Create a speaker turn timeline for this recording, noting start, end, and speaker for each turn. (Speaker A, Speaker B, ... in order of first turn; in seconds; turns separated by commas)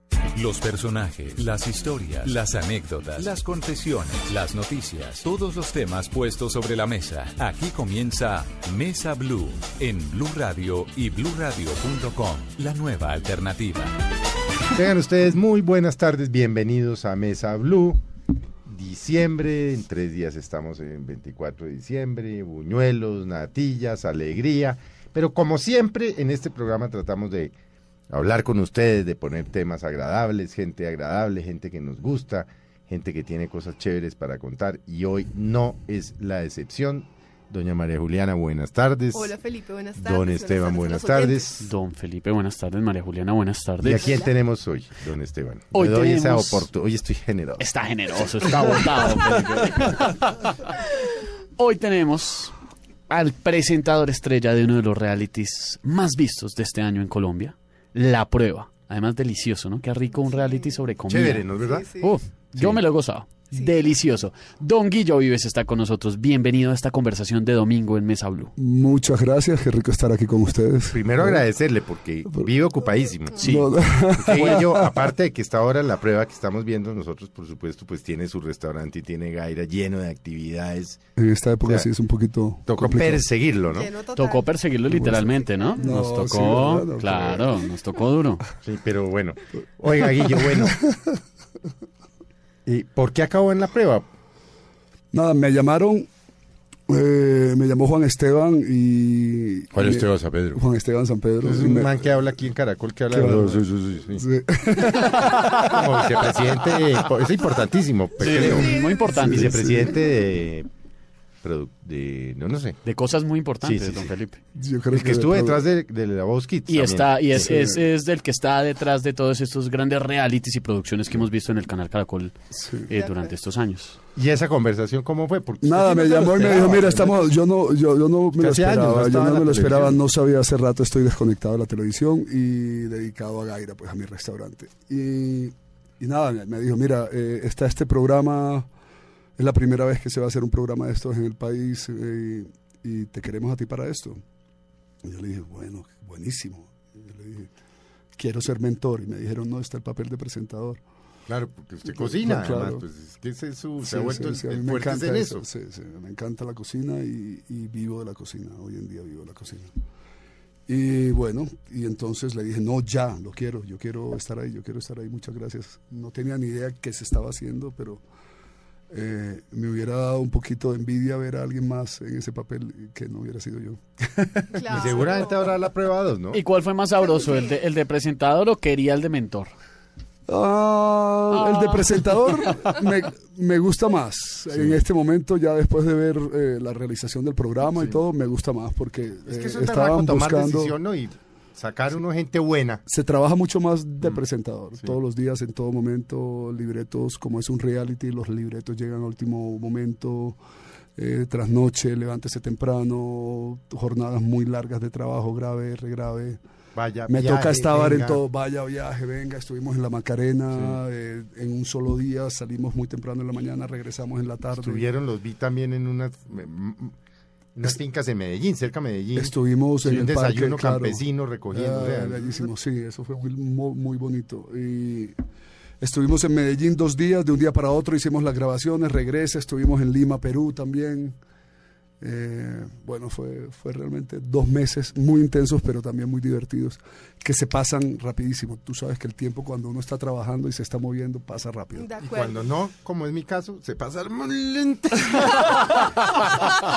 Speaker A: 0.3-13.9, Speaker B: 14.7-18.0, Speaker B: 18.6-27.5, Speaker B: 28.1-39.3, Speaker C: 39.1-41.7, Speaker B: 40.0-41.7, Speaker D: 41.6-44.1, Speaker B: 43.8-47.7, Speaker C: 44.0-44.3, Speaker D: 45.7-46.7, Speaker D: 47.6-52.5, Speaker D: 53.1-68.5, Speaker C: 60.1-60.9, Speaker B: 61.1-61.9, Speaker C: 61.6-62.2, Speaker E: 68.6-71.4, Speaker B: 70.9-73.6, Speaker E: 73.4-75.1, Speaker D: 73.4-73.7, Speaker B: 74.2-81.0, Speaker E: 81.2-83.2, Speaker B: 81.6-81.9, Speaker B: 82.7-83.9, Speaker C: 83.7-84.6, Speaker D: 84.1-88.4, Speaker E: 84.9-87.5, Speaker C: 85.1-85.9, Speaker B: 88.6-90.8, Speaker E: 90.0-91.2, Speaker B: 92.6-94.1, Speaker E: 95.1-96.1, Speaker E: 96.9-102.3, Speaker B: 99.7-100.6, Speaker B: 101.4-104.2, Speaker E: 103.1-105.8, Speaker B: 105.0-110.7, Speaker D: 108.2-109.8, Speaker C: 108.5-109.1, Speaker E: 109.1-110.0, Speaker B: 111.4-112.8, Speaker D: 112.8-114.4, Speaker B: 113.6-114.1, Speaker E: 114.5-115.6, Speaker B: 114.9-117.5, Speaker D: 116.7-122.3, Speaker E: 117.3-117.8, Speaker E: 122.5-122.9, Speaker D: 122.9-124.0, Speaker C: 122.9-123.3, Speaker B: 124.1-127.3, Speaker E: 125.6-138.7, Speaker B: 128.4-130.0, Speaker E: 139.4-144.2, Speaker E: 145.0-147.5, Speaker E: 148.2-150.8, Speaker B: 151.3-155.4, Speaker E: 151.8-152.8, Speaker E: 153.8-159.7, Speaker E: 160.7-168.0, Speaker E: 168.9-175.1, Speaker C: 174.5-175.4, Speaker B: 174.7-176.4, Speaker D: 176.3-179.5, Speaker C: 177.0-177.6, Speaker E: 180.3-190.8, Speaker D: 181.4-181.7, Speaker B: 184.5-184.8, Speaker B: 187.7-188.0, Speaker B: 189.3-192.8, Speaker E: 192.8-200.4, Speaker E: 200.9-206.4, Speaker B: 206.7-208.2, Speaker E: 207.1-214.9, Speaker B: 214.5-216.9, Speaker B: 217.5-222.5, Speaker E: 219.1-225.2, Speaker E: 225.8-231.2, Speaker E: 232.0-241.9, Speaker C: 241.7-242.5, Speaker B: 242.0-246.5